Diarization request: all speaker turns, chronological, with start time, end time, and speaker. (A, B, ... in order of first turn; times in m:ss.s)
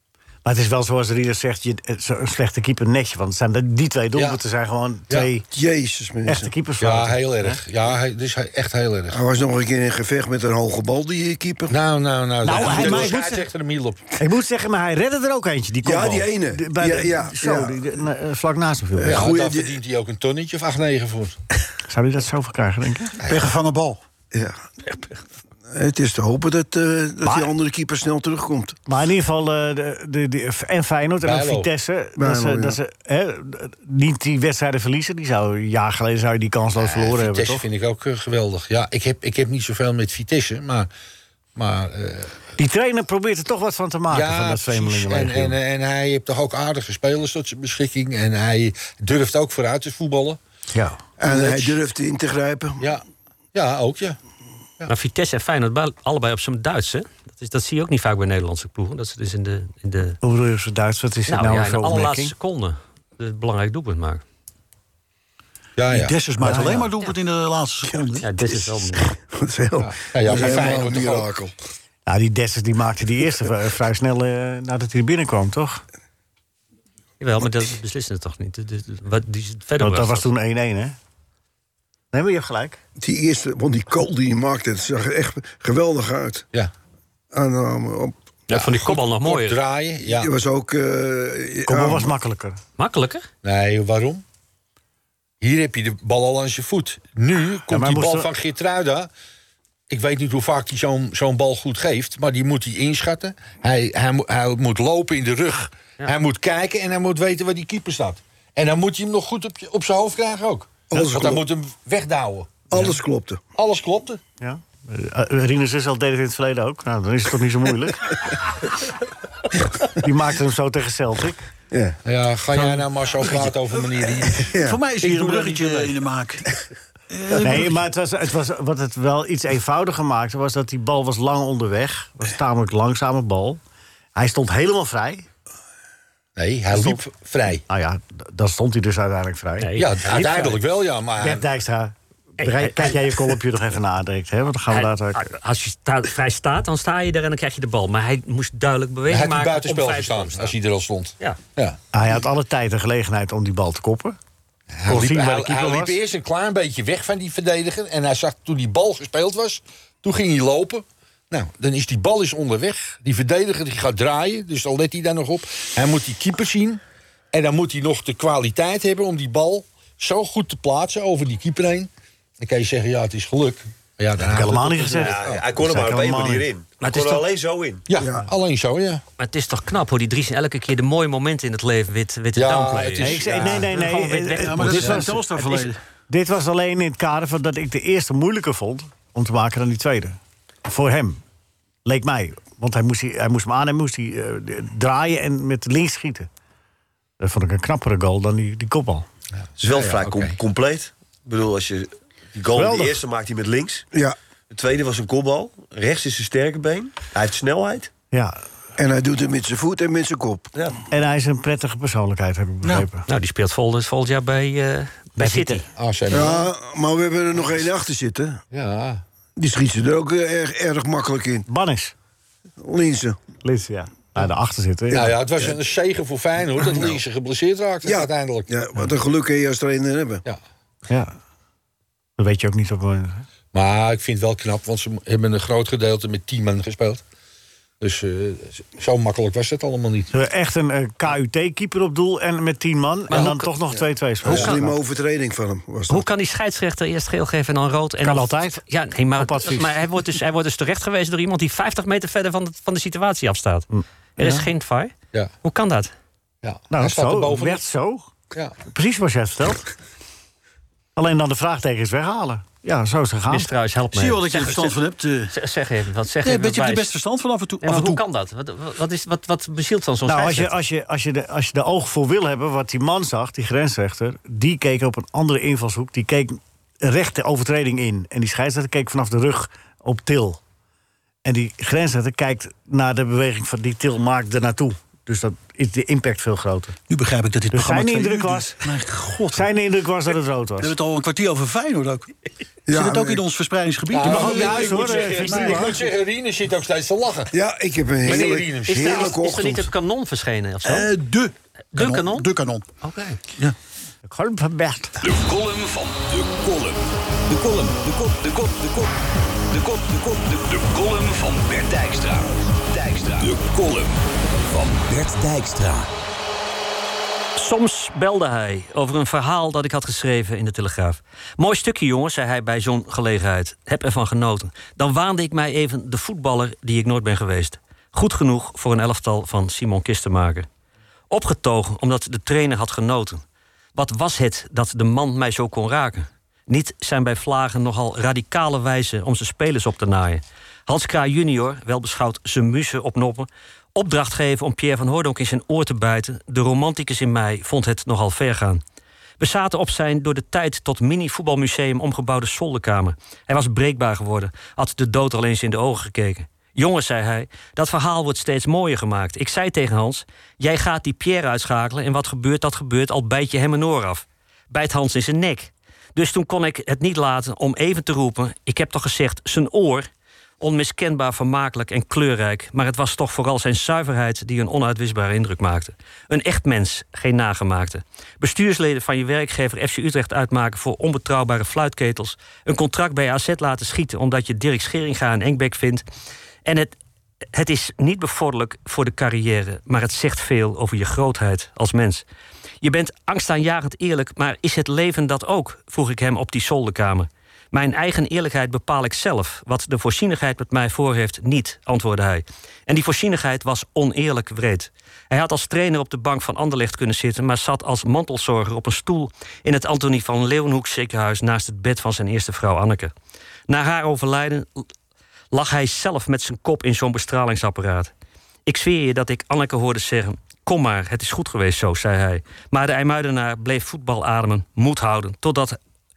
0:00.4-0:05.4 A
0:04.1-0:04.4 B
0:05.5-0:06.5 C
0:06.2-0:07.6 A
0:06.8-0:09.2 B
0:09.1-0:11.8 C
0:11.7-0:14.0 B
0:12.4-0:13.4 A
0:12.5-0:13.1 C
0:14.2-0:19.3 A
0:15.8-0:17.8 C
0:19.0-0:19.7 C
0:19.0-0:21.4 B
0:21.9-0:23.2 A
0:23.2-0:23.5 B
0:23.2-0:24.0 D
0:24.3-0:24.6 C
0:25.7-0:28.8 C
0:28.9-0:37.6 A
0:31.2-0:31.7 B
0:32.2-0:32.8 C
0:36.8-0:40.9 B
0:41.6-0:42.4 B
0:42.6-0:45.6 A
0:44.1-0:50.4 B
0:50.7-0:51.0 A
0:51.2-0:52.8 C
0:51.2-0:51.8 B
0:53.5-0:54.2 B
0:54.9-1:00.2 E
1:00.2-1:02.3 A
1:01.3-1:04.2 E
1:05.8-1:06.2 B
1:05.9-1:08.3 D
1:06.4-1:06.9 A
1:08.2-1:09.1 E
1:08.4-1:11.5 C
1:09.8-1:11.3 B
1:12.1-1:15.8 A
1:17.2-1:20.2 E
1:19.8-1:21.0 A
1:22.1-1:22.8 A
1:23.0-1:26.4 C
1:27.3-1:28.1 C
1:28.5-1:29.6 E
1:28.5-1:30.3 B
1:30.1-1:32.1 C
1:31.6-1:32.6 A
1:32.8-1:33.2 E
1:33.4-1:34.2 B
1:35.4-1:39.1 B
1:37.7-1:38.3 A
1:39.9-1:53.0 B
1:50.9-1:51.4 C
1:52.7-1:53.4 C
1:53.5-1:54.2 B
1:54.4-1:58.2 A
2:00.0-2:01.4 A
2:01.7-2:02.0 C
2:02.0-2:05.9 B
2:04.5-2:04.8 C
2:04.6-2:06.4 D
2:07.1-2:07.8 D
2:07.4-2:13.6 A
2:14.1-2:15.2 A
2:16.4-2:17.6 B
2:16.7-2:17.0 A
2:17.7-2:19.7 A
2:19.6-2:20.6 E
2:19.7-2:21.4 B
2:21.2-2:25.2 A
2:22.4-2:23.2 E
2:24.7-2:30.5 E
2:29.1-2:31.8 B
2:31.9-2:34.2 A
2:34.7-2:46.8 B
2:34.9-2:36.0 A
2:47.3-2:55.4 B
2:54.2-2:56.5 A
2:54.9-2:57.8 F
2:56.8-2:57.2 E
2:57.9-2:59.0 B
2:58.0-2:58.2 C
2:59.2-3:05.0 E
3:02.3-3:03.7 B
3:03.0-3:11.2 A
3:03.7-3:05.8 D
3:11.8-3:16.3 A
3:17.2-3:19.0 A
3:19.4-3:20.4 B
3:19.6-3:23.8 F
3:22.5-3:23.0 A
3:24.5-3:27.9 F
3:28.1-3:28.4 A
3:28.8-3:30.5 C
3:30.9-3:33.0 A
3:33.1-3:35.6 E
3:35.2-3:35.6 A
3:35.8-3:36.5 B
3:36.1-3:38.4 C
3:38.5-3:39.0 B
3:39.4-3:41.4 C
3:41.5-3:41.9 A
3:42.6-3:43.2 C
3:43.4-3:45.2 A
3:44.9-3:48.5 B
3:47.8-3:50.2 C
3:50.9-3:51.1 A
3:52.2-3:53.2 A
3:53.5-3:57.0 B
3:57.8-4:00.1 B
4:00.1-4:04.7 A
4:03.1-4:03.5 E
4:04.2-4:06.0 C
4:04.3-4:04.6 E
4:05.9-4:14.9 E
4:08.0-4:08.6 A
4:09.2-4:09.8 A
4:13.7-4:14.5 A
4:15.4-4:15.9 E
4:16.4-4:17.6 B
4:16.7-4:18.1 A
4:18.6-4:19.7 A
4:21.0-4:23.5 A
4:23.3-4:24.8 E
4:23.9-4:25.3 D
4:25.3-4:26.9 E
4:26.2-4:28.0 D
4:27.6-4:30.5 E
4:30.1-4:40.4 A
4:41.2-4:46.8 A
4:46.9-4:49.5 D
4:47.5-4:48.6 A
4:49.3-4:50.7 A
4:50.6-4:52.1 D
4:52.7-4:53.2 C
4:52.7-4:55.6 D
4:53.9-4:57.3 B
4:54.0-4:55.8 A
4:57.3-4:59.7 C
4:58.0-4:59.1 B
4:58.0-5:00.9 E
5:00.6-5:02.6 D
5:01.7-5:02.3 E
5:02.8-5:03.2 E
5:04.1-5:05.0 A
5:05.0-5:08.9 G
5:09.5-5:15.9 G
5:17.4-5:30.5 E
5:31.1-5:33.2 E
5:33.7-5:48.6 E
5:49.2-6:09.9 E
6:10.4-6:25.8 E
6:26.4-6:26.8 E
6:27.3-6:32.0 E
6:32.6-6:52.9 E
6:53.5-6:54.5 E
6:55.3-6:57.9 E
6:58.4-7:05.6 E